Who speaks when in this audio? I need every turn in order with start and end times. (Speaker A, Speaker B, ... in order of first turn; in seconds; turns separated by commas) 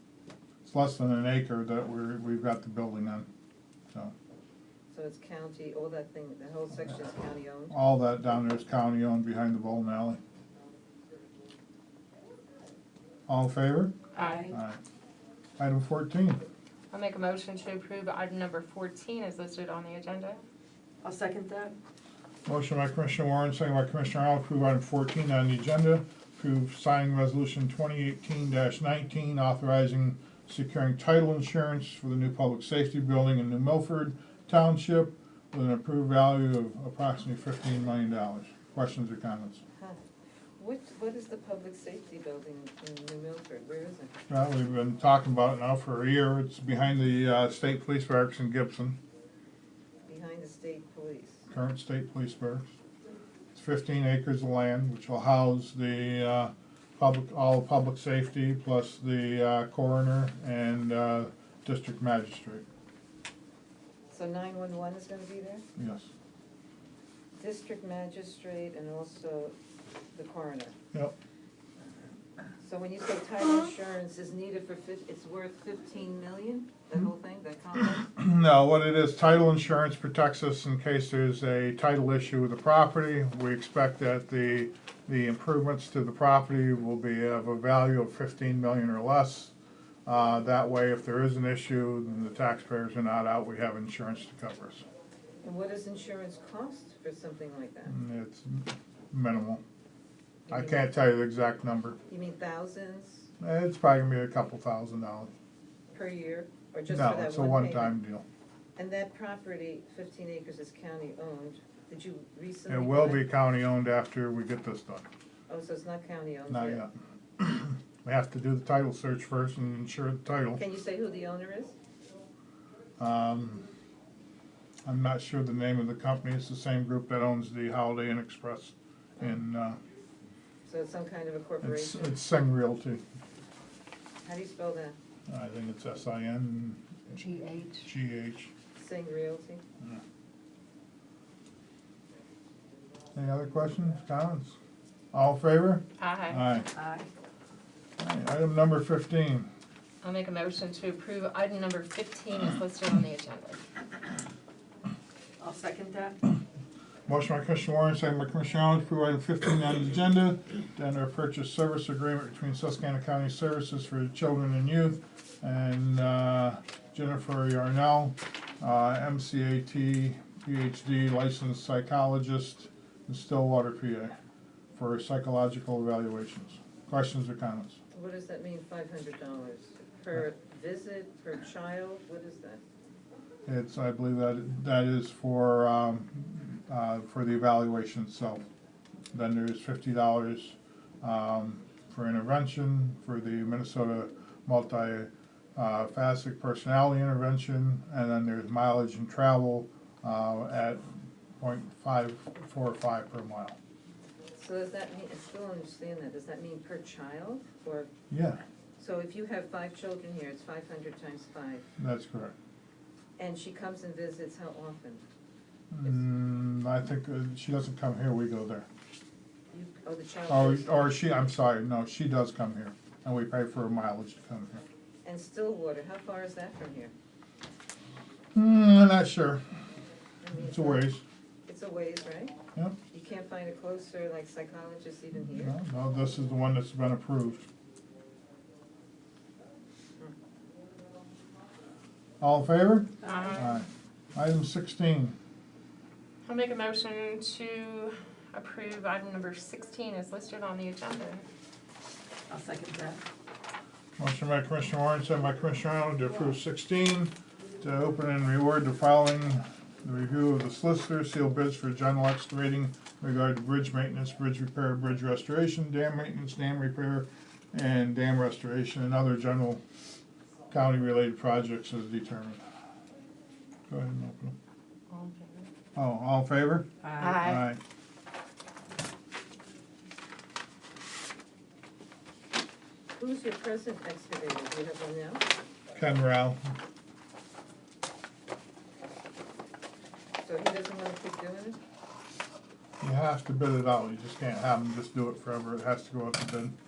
Speaker A: 0.6-3.3, Speaker B: 4.9-7.8, Speaker A: 7.7-10.2, Speaker A: 13.3-13.9, Speaker C: 14.1-14.5, Speaker D: 14.2-14.5, Speaker A: 14.5-14.8, Speaker A: 15.6-16.4, Speaker C: 16.9-20.4, Speaker D: 21.0-21.8, Speaker A: 22.4-39.6, Speaker B: 40.6-44.1, Speaker A: 44.3-49.0, Speaker B: 50.1-51.5, Speaker A: 51.5-52.7, Speaker A: 53.5-62.6, Speaker B: 64.1-65.6, Speaker A: 65.8-66.1, Speaker B: 67.4-69.5, Speaker B: 70.1-70.8, Speaker B: 72.6-78.0, Speaker A: 77.8-89.5, Speaker A: 90.0-94.8, Speaker B: 95.4-97.9, Speaker A: 97.9-99.6, Speaker B: 100.5-100.9, Speaker A: 100.5-102.0, Speaker B: 102.1-103.3, Speaker A: 103.4-105.3, Speaker B: 105.9-108.0, Speaker A: 106.9-108.2, Speaker B: 108.8-113.2, Speaker A: 112.7-115.1, Speaker B: 115.5-116.8, Speaker A: 116.5-120.6, Speaker B: 120.5-121.8, Speaker A: 123.0-123.7, Speaker A: 124.8-129.8, Speaker B: 130.7-132.1, Speaker A: 131.6-133.0, Speaker B: 134.2-135.0, Speaker A: 135.3-136.8, Speaker D: 137.1-137.8, Speaker A: 137.8-138.5, Speaker B: 138.8-139.6, Speaker A: 143.2-144.6, Speaker A: 145.1-146.7, Speaker C: 146.0-146.4, Speaker D: 146.7-147.1, Speaker A: 148.0-149.5, Speaker C: 150.0-153.6, Speaker D: 155.4-156.2, Speaker A: 157.1-174.2, Speaker A: 174.8-177.8, Speaker B: 177.9-182.6, Speaker A: 183.5-188.4, Speaker A: 189.1-203.6, Speaker B: 204.3-207.9, Speaker A: 208.1-208.4, Speaker B: 208.8-211.7, Speaker A: 211.8-212.3, Speaker B: 213.2-215.0, Speaker A: 215.7-218.7, Speaker B: 219.5-220.7, Speaker A: 220.3-224.6, Speaker B: 225.0-226.9, Speaker A: 228.3-229.4, Speaker B: 230.2-230.9, Speaker A: 230.3-231.0, Speaker B: 231.5-232.3, Speaker B: 232.9-235.6, Speaker A: 235.2-237.5, Speaker A: 242.2-245.2, Speaker D: 243.0-243.3, Speaker C: 243.0-243.5, Speaker C: 246.2-251.2, Speaker D: 252.3-253.0, Speaker A: 254.0-269.6, Speaker A: 270.5-272.4, Speaker A: 273.7-274.4, Speaker C: 274.9-275.5, Speaker A: 275.8-276.7, Speaker D: 276.8-277.2, Speaker C: 277.0-277.5, Speaker A: 277.2-277.6, Speaker B: 283.0-285.3, Speaker A: 285.7-286.4, Speaker B: 290.2-291.6, Speaker A: 292.8-296.6